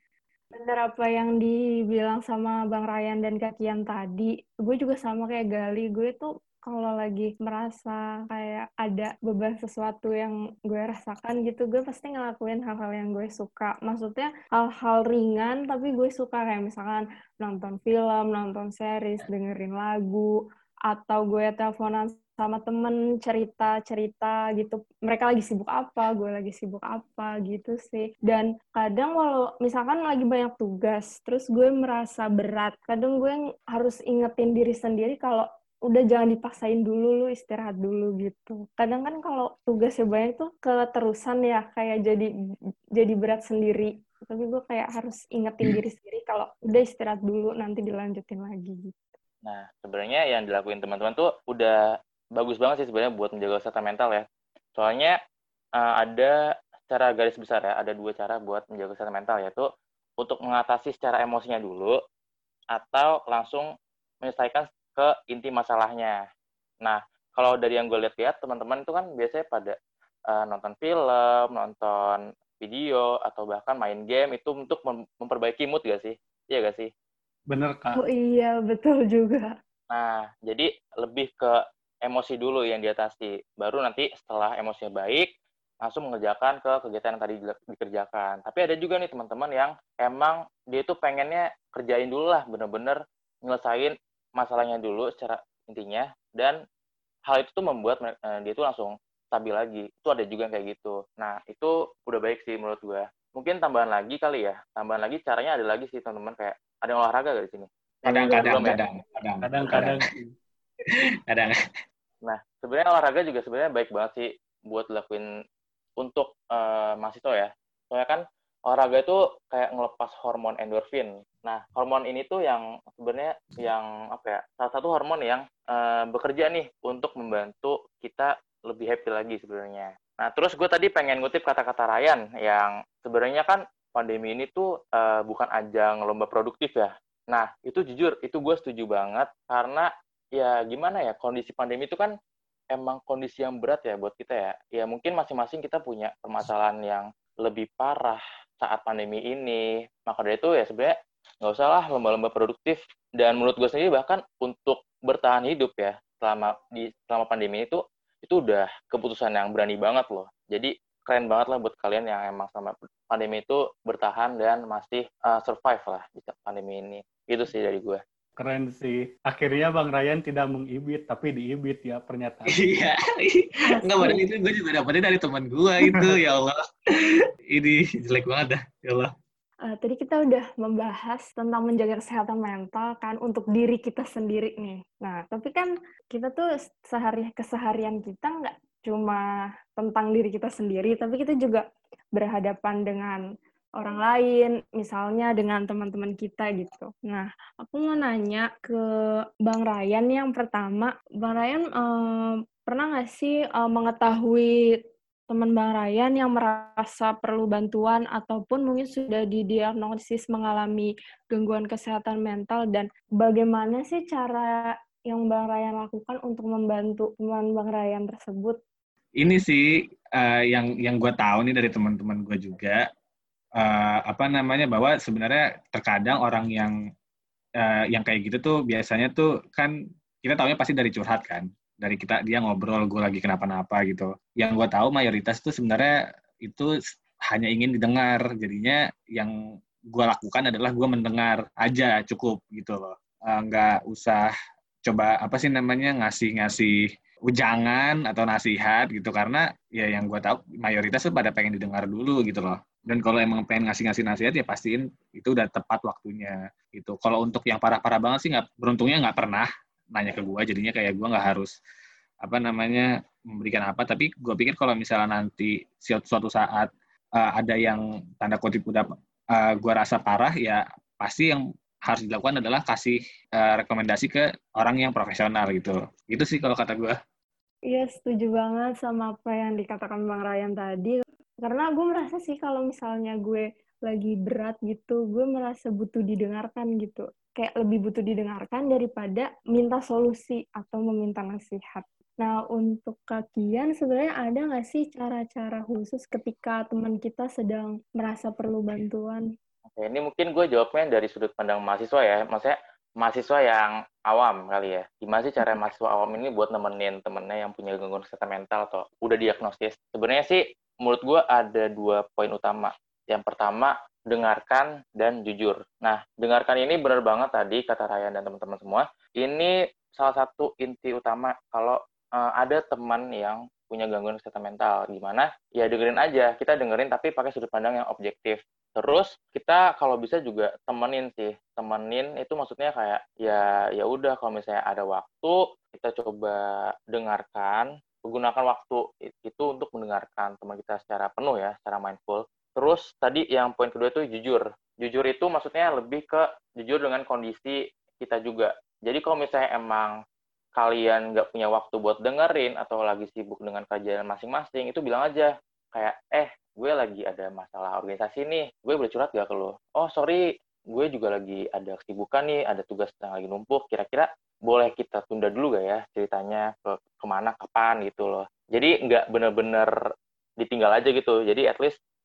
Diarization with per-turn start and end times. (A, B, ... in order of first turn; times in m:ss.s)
0:00.5-0:42.3 A
0:43.0-0:49.1 A
0:49.4-0:51.8 B
0:52.4-0:55.2 B
0:55.8-0:56.4 B
0:56.9-0:59.6 B
1:00.2-1:02.0 B
1:02.7-1:03.7 B
1:04.2-1:06.2 B
1:06.8-1:09.7 B
1:10.3-1:16.9 B
1:17.5-1:18.0 C
1:17.9-1:19.5 A
1:19.9-1:25.3 B
1:25.8-1:36.6 B
1:37.3-1:48.8 B
1:48.0-1:50.0 D
1:49.4-1:50.4 C
1:51.3-1:51.6 D
1:52.2-1:55.2 B
1:56.0-2:22.1 B
2:22.7-2:48.0 B
2:48.4-2:52.5 C
2:52.5-2:59.1 D
2:53.7-2:54.2 A
2:55.9-2:56.2 C
2:59.7-3:13.2 A
3:13.8-3:18.8 A
3:19.4-3:38.6 A
3:39.2-3:39.6 D
3:40.1-3:42.8 D
3:43.6-3:46.7 D
3:47.6-3:56.8 D
3:57.3-3:59.3 D
3:59.9-4:04.3 D
4:04.8-4:21.5 D
4:22.2-4:37.0 D
4:37.7-4:59.2 A
4:59.7-5:49.9 B
5:50.6-6:09.7 B
6:10.4-6:11.8 B